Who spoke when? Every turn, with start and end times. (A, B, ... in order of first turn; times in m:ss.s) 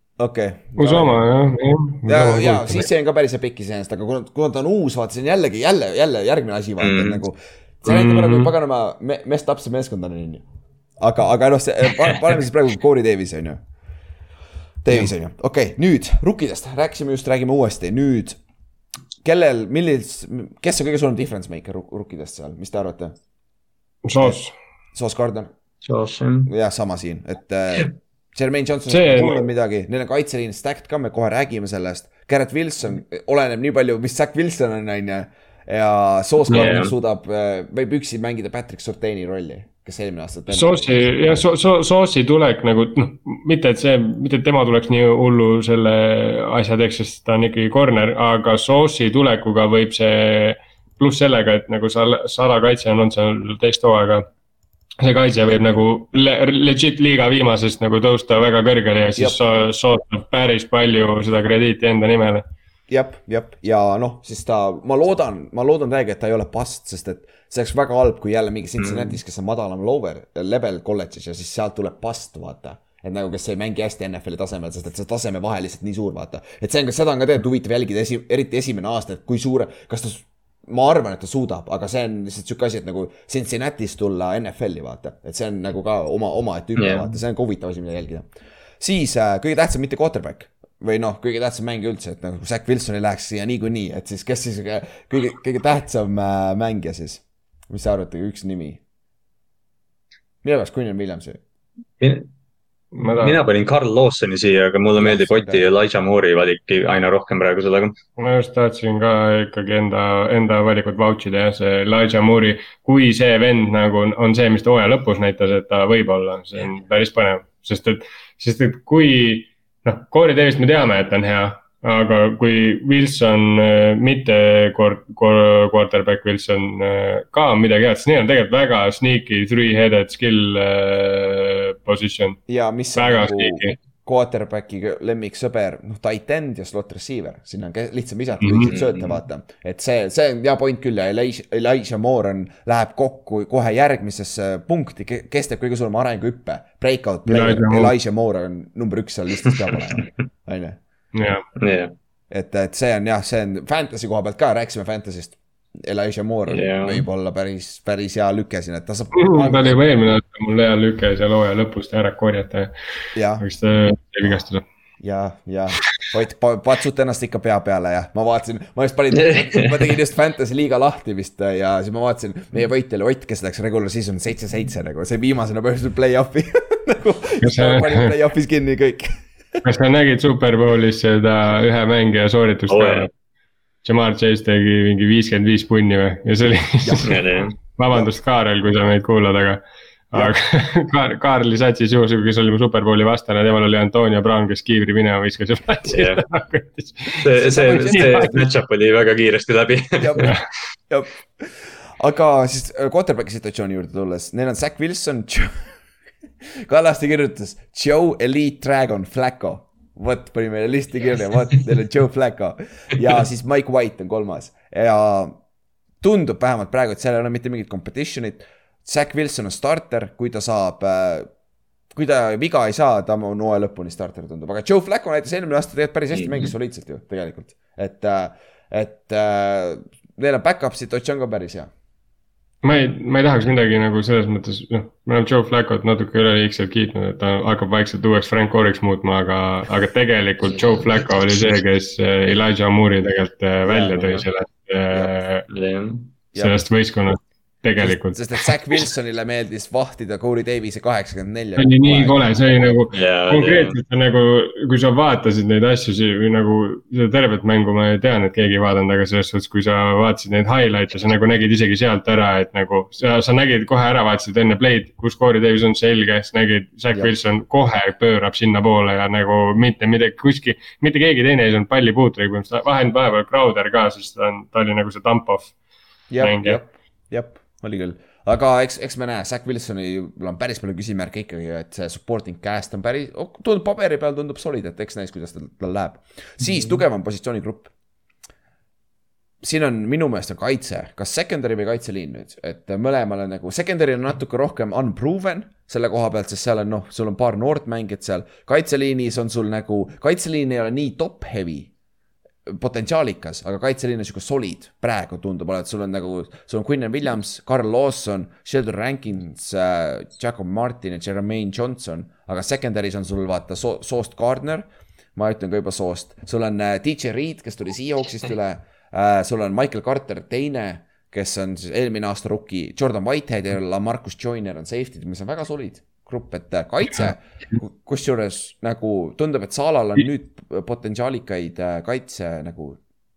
0:00.2-0:01.2 A
0:00.8-0:02.8 B
0:02.0-0:10.4 A
0:06.8-0:07.2 C
0:07.8-0:08.5 B
0:11.0-0:13.6 A
0:14.8-0:18.4 A
0:19.2-0:23.1 A
0:24.0-0:24.5 B
0:24.9-0:25.5 A
0:25.8-0:26.5 C
0:26.5-0:41.4 A
0:28.9-0:29.4 B
0:36.5-0:36.9 C
0:36.5-0:36.8 B
0:40.5-0:54.2 B
0:55.0-1:02.4 B
1:02.9-1:28.3 A
1:08.8-1:09.2 C
1:26.8-1:27.1 C
1:28.8-1:38.8 A
1:40.4-1:41.4 A
1:42.0-1:42.3 C
1:42.9-1:43.4 B
1:43.2-1:48.0 C
1:45.0-1:45.7 A
1:48.2-2:12.4 B
2:12.5-2:30.8 A
2:12.9-2:13.8 B
2:18.4-2:18.7 B
2:18.6-2:19.2 C
2:27.3-2:27.9 B
2:31.1-2:31.4 B
2:31.6-2:31.9 C
2:32.3-2:39.8 A
2:36.5-2:37.0 C
2:39.2-2:42.7 B
2:43.1-2:43.4 A
2:43.4-2:44.6 B
2:45.0-2:59.6 A
2:49.1-2:49.8 C
2:57.4-2:58.2 B
2:59.6-3:03.1 B
3:02.7-3:03.1 C
3:03.8-3:18.4 B
3:06.8-3:07.2 A
3:07.0-3:07.5 C
3:15.9-3:16.2 C
3:17.2-3:20.3 C
3:17.4-3:18.4 A
3:20.0-3:20.3 A
3:20.9-3:25.7 A
3:26.5-3:35.4 A
3:36.0-3:41.3 A
3:41.9-3:51.7 A
3:46.1-3:46.5 C
3:52.6-4:05.4 B
4:03.6-4:04.2 A
4:05.5-4:06.1 C
4:06.3-4:06.7 A
4:06.4-4:08.3 B
4:07.8-4:12.8 A
4:11.6-4:35.5 B
4:12.9-4:13.8 C
4:36.1-4:47.7 A
4:36.2-4:36.6 B
4:49.4-5:01.7 A
5:02.5-5:32.8 A